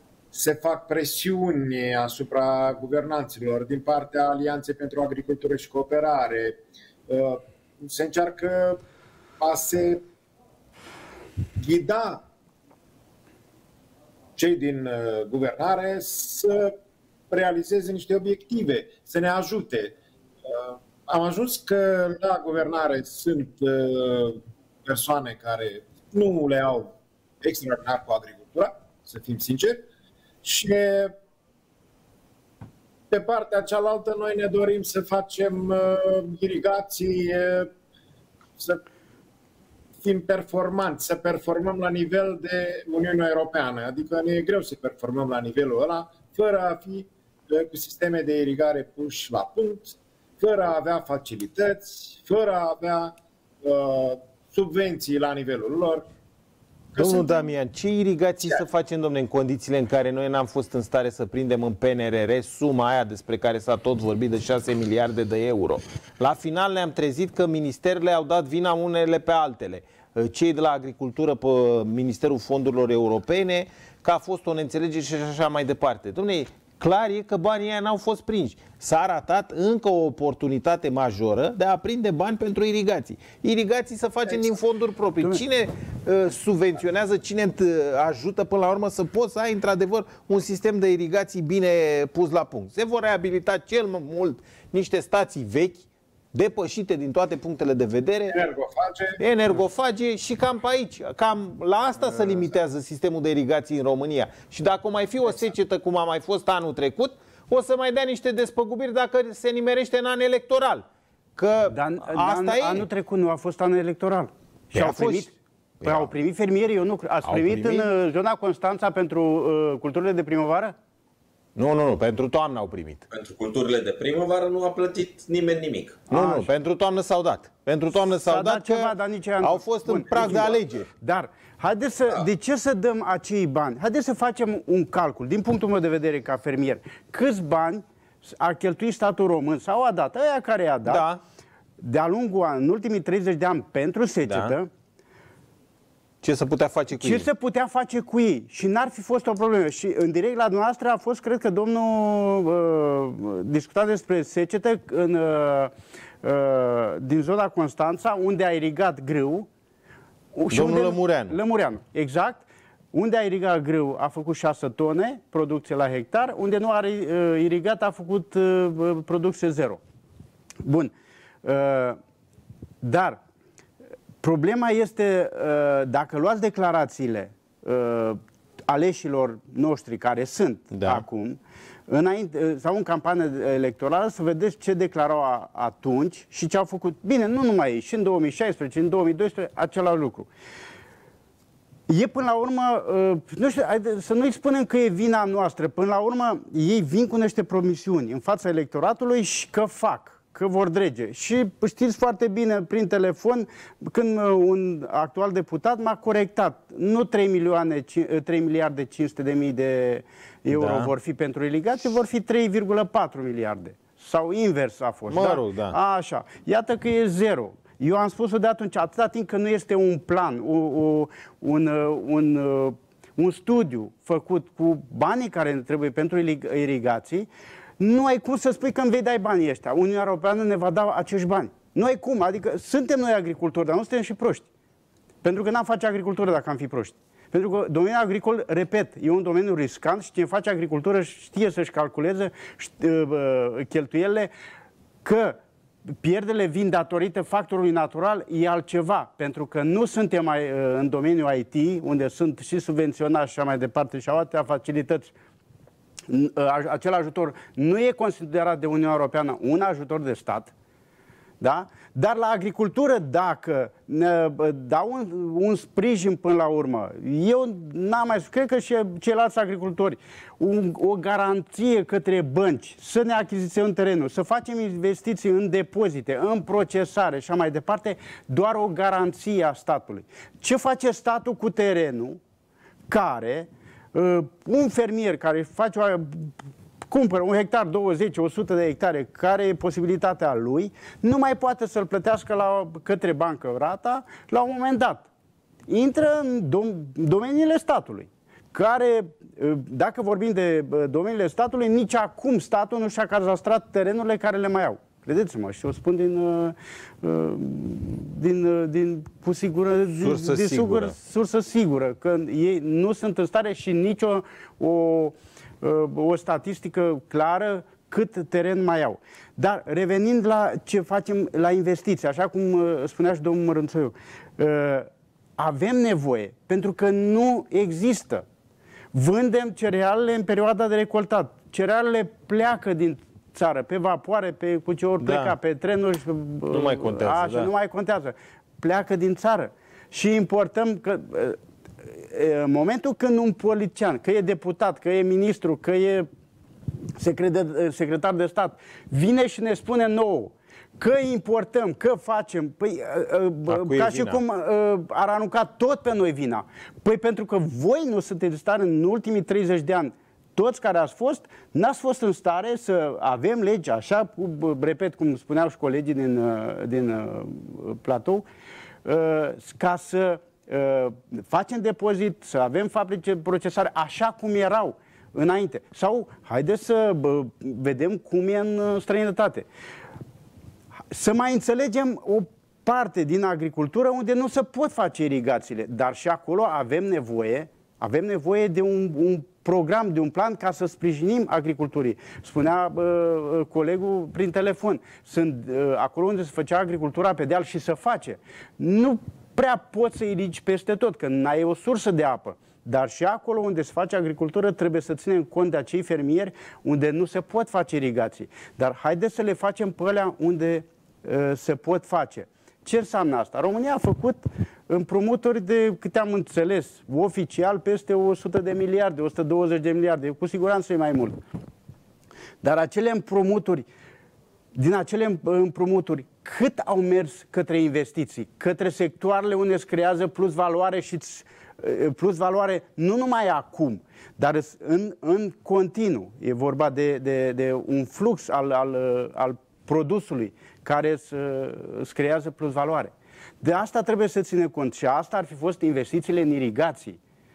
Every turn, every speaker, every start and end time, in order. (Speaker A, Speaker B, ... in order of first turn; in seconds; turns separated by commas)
Speaker A: 0.3-8.8, Speaker A: 9.4-10.0, Speaker A: 11.6-12.2, Speaker A: 14.4-16.7, Speaker A: 17.3-29.9, Speaker A: 30.4-31.1, Speaker A: 33.1-37.7, Speaker A: 40.0-56.0, Speaker A: 56.9-57.5, Speaker B: 57.0-98.4, Speaker A: 98.3-99.2, Speaker B: 99.2-112.9, Speaker C: 111.7-120.8, Speaker B: 114.7-115.3, Speaker B: 115.8-116.1, Speaker B: 117.2-117.9, Speaker B: 121.6-123.1, Speaker D: 123.1-126.0, Speaker B: 126.1-130.9, Speaker C: 126.1-126.5, Speaker C: 128.2-141.1, Speaker B: 140.9-141.2, Speaker C: 141.8-144.7, Speaker B: 144.3-144.5, Speaker B: 146.2-147.3, Speaker C: 146.9-155.7, Speaker C: 156.2-159.5, Speaker C: 160.3-169.8, Speaker B: 160.5-161.4, Speaker C: 170.6-170.9, Speaker C: 171.4-172.0, Speaker C: 172.8-173.2, Speaker C: 174.2-190.3, Speaker B: 180.7-181.0, Speaker C: 191.9-227.3, Speaker B: 210.5-210.9, Speaker B: 215.1-215.8, Speaker C: 227.8-234.5, Speaker C: 235.2-244.3, Speaker C: 245.0-245.4, Speaker C: 246.0-255.1, Speaker C: 256.1-260.5, Speaker C: 261.4-282.2, Speaker C: 282.9-286.3, Speaker C: 286.9-295.1, Speaker C: 295.7-328.3, Speaker B: 310.0-311.0, Speaker C: 328.9-346.1, Speaker B: 335.0-335.4, Speaker B: 336.5-337.5, Speaker C: 347.0-368.3, Speaker B: 353.5-354.2, Speaker C: 368.9-379.5, Speaker C: 380.9-421.2, Speaker C: 422.4-423.7, Speaker C: 424.5-447.0